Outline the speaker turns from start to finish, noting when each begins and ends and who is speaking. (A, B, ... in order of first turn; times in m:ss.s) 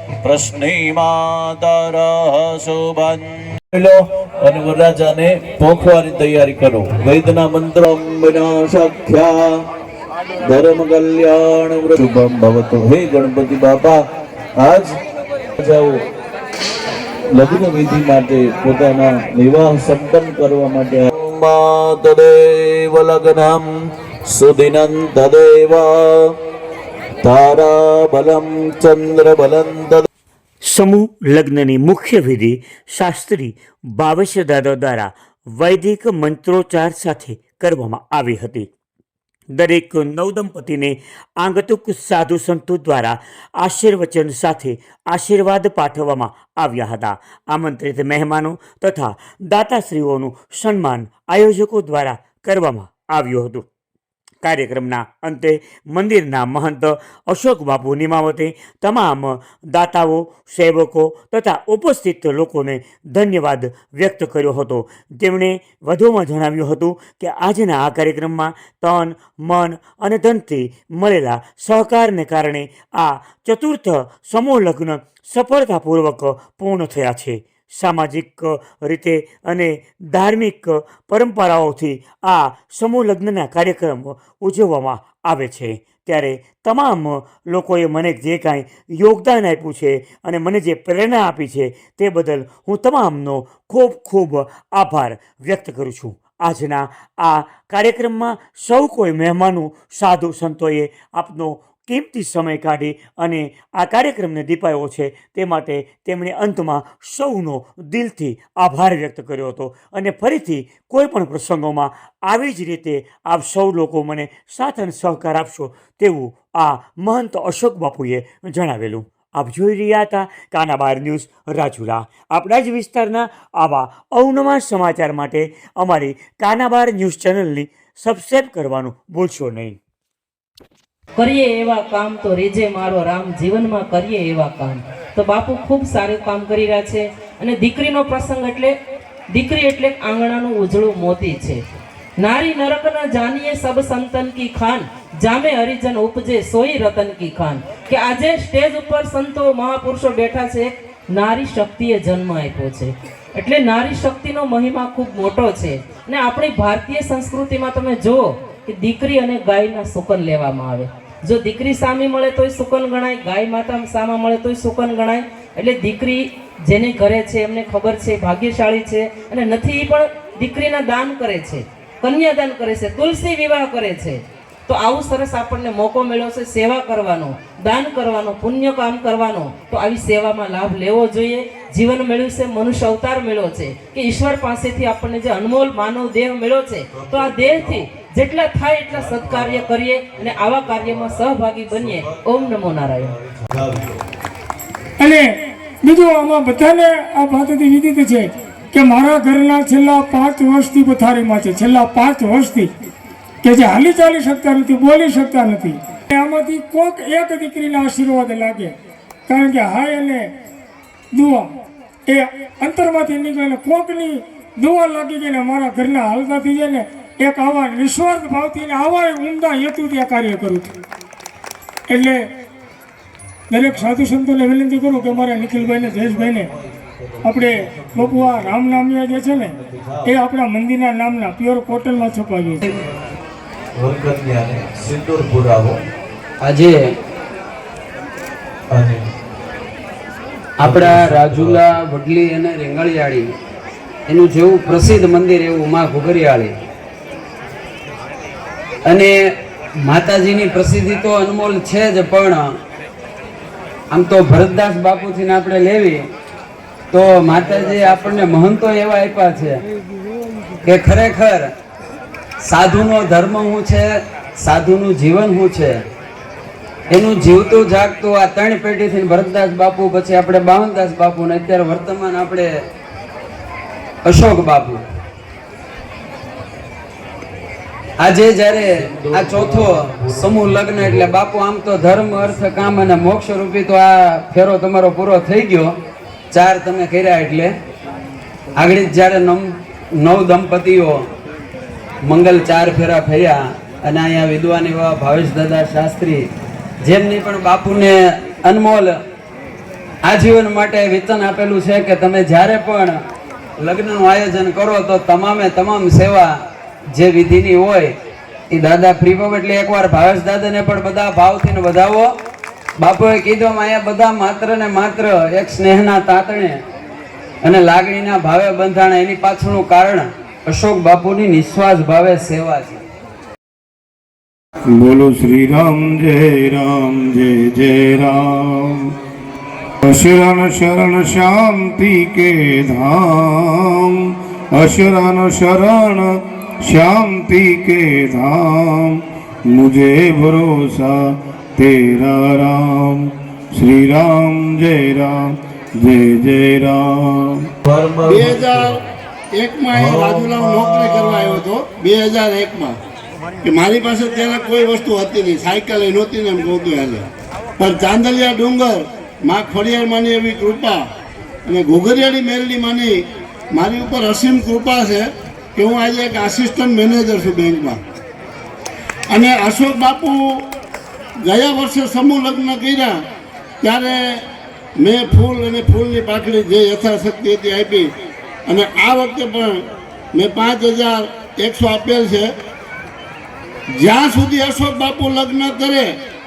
0:00.2-0:09.4 A
0:10.4-0:14.0 A
0:14.6-0:15.0 A
0:15.6-0:16.0 A
0:17.3-0:23.7 A
0:24.3-0:26.1 A
0:27.2-0:30.1 A
0:30.6-0:38.7 B
0:39.5-0:53.6 B
0:54.4-2:09.8 B
2:11.2-2:18.7 C
2:19.3-2:21.6 C
2:22.2-3:13.1 C
3:07.0-3:07.9 A
3:08.9-3:14.0 A
3:15.0-3:22.7 D
3:23.4-3:28.7 D
3:29.3-3:30.3 D
3:31.1-3:31.5 D
3:32.1-3:40.8 D
3:41.9-3:42.3 D
3:43.5-3:46.5 D
3:44.8-3:50.1 A
3:47.2-3:52.6 D
3:53.8-3:55.8 A
3:56.4-3:56.7 E
3:58.7-3:59.0 A
4:00.6-4:03.3 E
4:00.6-4:01.6 A
4:04.1-4:06.5 E
4:09.9-4:12.4 E
4:13.9-4:16.0 E
4:16.9-4:19.6 E
4:20.6-4:21.5 E
4:22.4-4:23.9 E
4:24.4-4:25.8 E
4:26.9-4:32.5 E
4:34.0-4:34.8 E
4:38.0-4:45.7 E
4:38.8-4:41.1 A
4:42.2-4:43.1 A
4:46.3-4:47.5 E
4:48.6-4:49.5 E
4:50.0-4:51.0 E
4:52.1-4:56.2 E
4:56.8-4:57.9 E
4:58.4-4:58.9 E
5:00.0-5:03.0 E
5:03.6-5:06.3 E
5:06.9-5:07.9 E
5:08.5-5:12.1 E
5:12.8-5:16.6 E
5:17.4-5:22.8 E
5:24.7-5:28.9 F
5:29.8-5:34.0 F
5:34.5-5:47.5 F
5:47.6-5:48.7 A
5:48.0-5:48.8 G
5:49.3-5:52.8 G
5:49.7-5:51.5 A
5:53.4-5:57.0 G
5:57.6-6:00.8 G
6:01.4-6:03.0 G
6:03.5-6:07.8 G
6:09.1-6:10.2 G
6:11.2-6:13.0 G
6:13.6-6:14.2 G
6:14.8-6:17.9 G
6:18.4-6:19.6 G
6:20.1-6:22.3 G
6:23.7-6:26.0 G